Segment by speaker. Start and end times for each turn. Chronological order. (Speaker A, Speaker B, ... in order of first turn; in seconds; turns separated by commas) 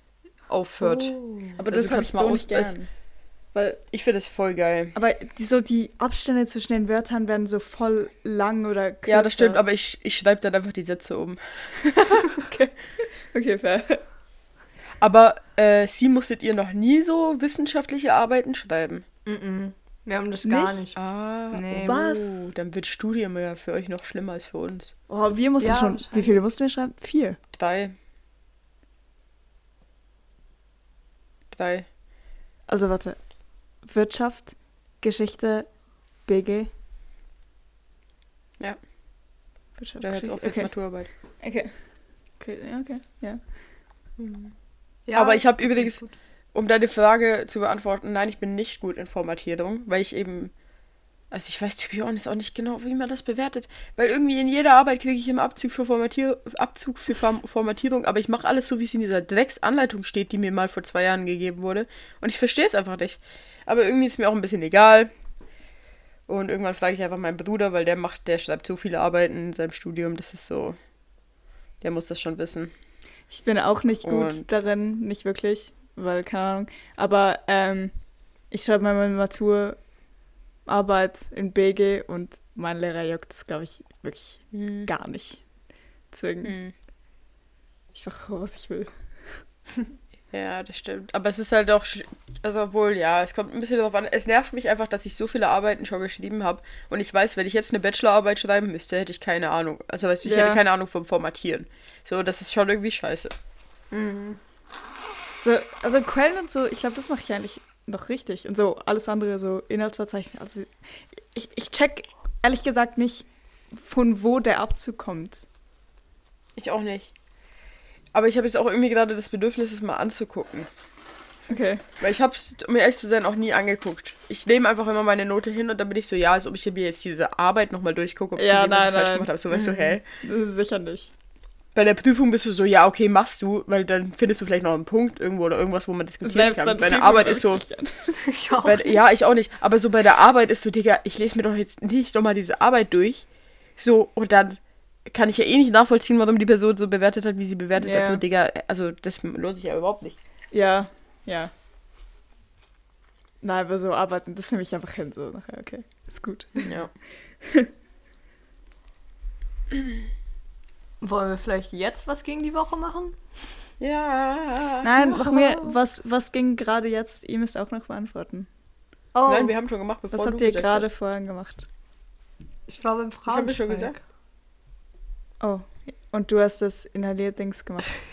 Speaker A: 0.5-2.8, Speaker B: 0.8-1.5, Speaker C: 1.6-3.8, Speaker A: 3.9-4.9, Speaker C: 4.9-9.6, Speaker A: 9.1-11.8, Speaker C: 12.4-14.0, Speaker A: 15.0-19.0, Speaker B: 19.2-21.0, Speaker C: 20.4-20.8, Speaker A: 20.9-24.9, Speaker B: 21.5-22.1, Speaker C: 21.7-22.4, Speaker C: 25.1-27.4, Speaker B: 25.6-26.4, Speaker A: 27.5-27.9, Speaker A: 31.5-31.9, Speaker C: 32.7-36.7, Speaker C: 39.8-43.4, Speaker A: 40.0-41.1, Speaker A: 44.2-44.5, Speaker B: 45.0-46.2, Speaker A: 45.1-50.5, Speaker A: 51.3-65.1, Speaker A: 66.3-70.8, Speaker A: 71.8-72.7, Speaker C: 73.3-80.0, Speaker A: 74.0-74.5, Speaker C: 80.6-85.5, Speaker A: 84.5-84.9, Speaker C: 86.1-86.5, Speaker A: 86.4-86.7, Speaker C: 87.9-89.4, Speaker A: 90.3-103.3, Speaker C: 100.2-100.6, Speaker A: 103.9-104.4, Speaker C: 105.4-115.5, Speaker A: 116.5-117.1, Speaker A: 118.1-120.7, Speaker C: 121.5-121.8, Speaker A: 122.0-130.0, Speaker C: 128.3-129.3, Speaker B: 129.5-129.9, Speaker C: 130.2-131.1, Speaker A: 131.7-137.7, Speaker C: 136.2-138.2, Speaker B: 138.2-139.0, Speaker A: 138.6-150.2, Speaker C: 147.8-148.2, Speaker C: 150.5-151.5, Speaker C: 153.4-156.6, Speaker A: 156.6-156.9, Speaker C: 157.4-157.7, Speaker B: 161.0-163.2, Speaker A: 163.8-165.2, Speaker C: 164.8-168.5, Speaker B: 165.2-165.6, Speaker B: 169.1-169.5, Speaker A: 169.3-170.9, Speaker C: 170.1-171.7, Speaker B: 172.7-174.0, Speaker A: 173.3-173.9, Speaker C: 175.4-177.9